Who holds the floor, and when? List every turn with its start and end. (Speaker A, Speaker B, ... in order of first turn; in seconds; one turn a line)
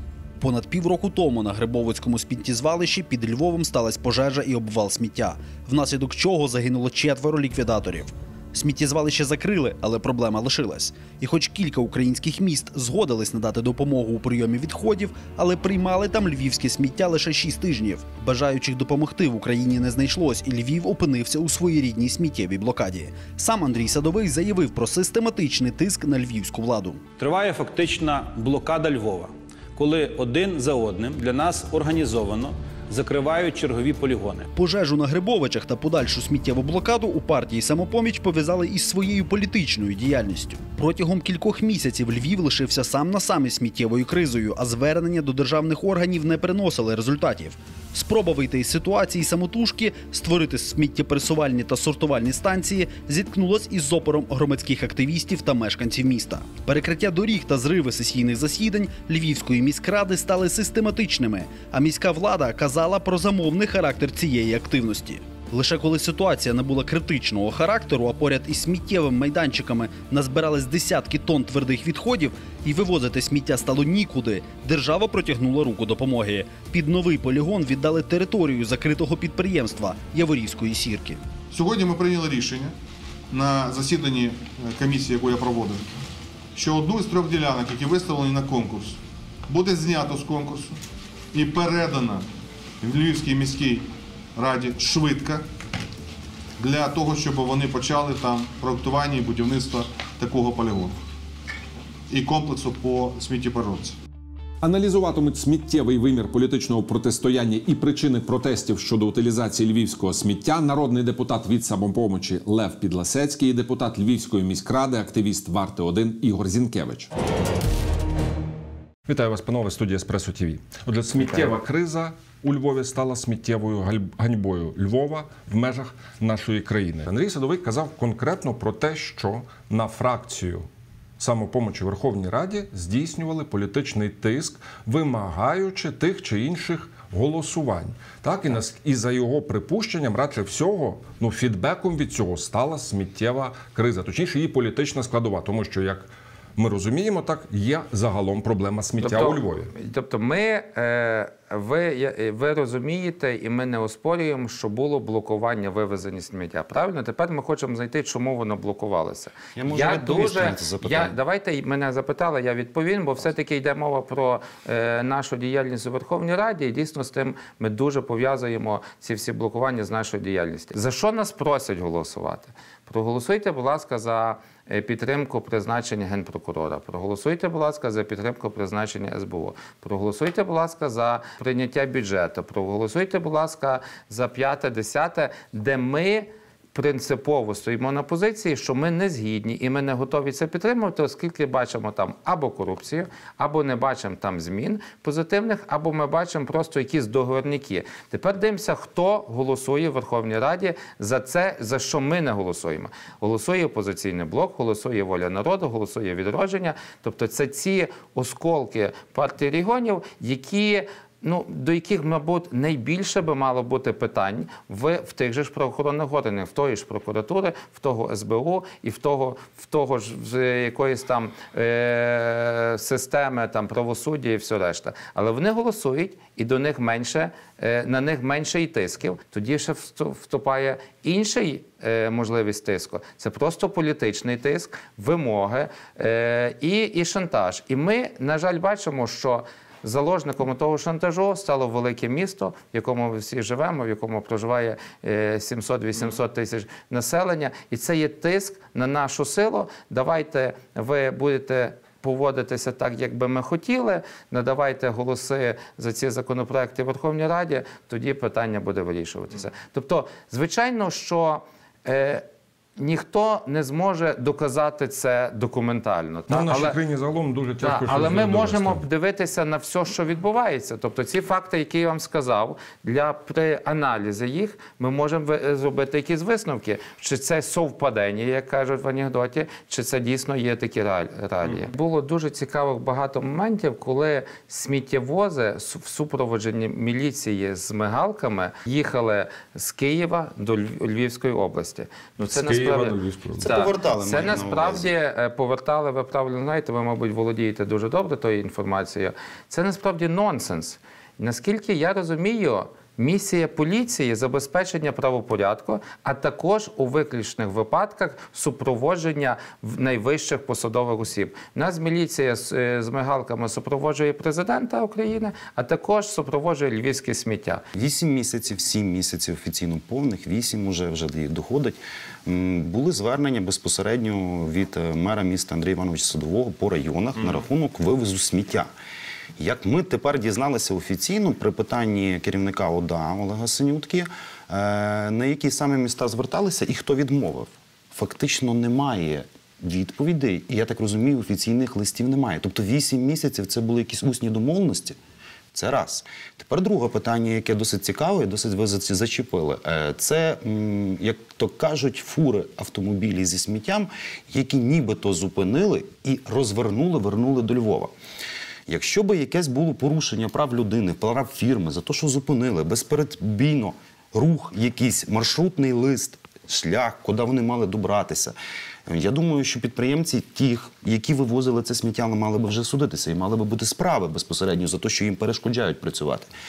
Speaker A: 0.4-27.0
Speaker B: 27.2-34.5
Speaker A: 34.5-81.2
Speaker C: 81.5-82.7
Speaker C: 83.3-85.9
Speaker C: 86.5-90.8
Speaker C: 91.3-92.2
Speaker C: 92.8-95.4
Speaker C: 96.6-101.0
Speaker C: 102.1-104.0
Speaker D: 104.6-117.1
Speaker D: 119.0-130.6
Speaker E: 121.2-121.5
Speaker D: 131.2-149.7
Speaker E: 149.0-262.2
Speaker F: 159.6-161.2
Speaker E: 262.8-266.8
Speaker D: 266.3-268.8
Speaker E: 267.6-317.6
Speaker D: 292.3-293.5
Speaker F: 293.4-294.9
Speaker F: 317.7-328.7
Speaker F: 329.4-345.0
Speaker F: 345.5-357.9
Speaker F: 358.7-368.4
Speaker F: 368.9-376.3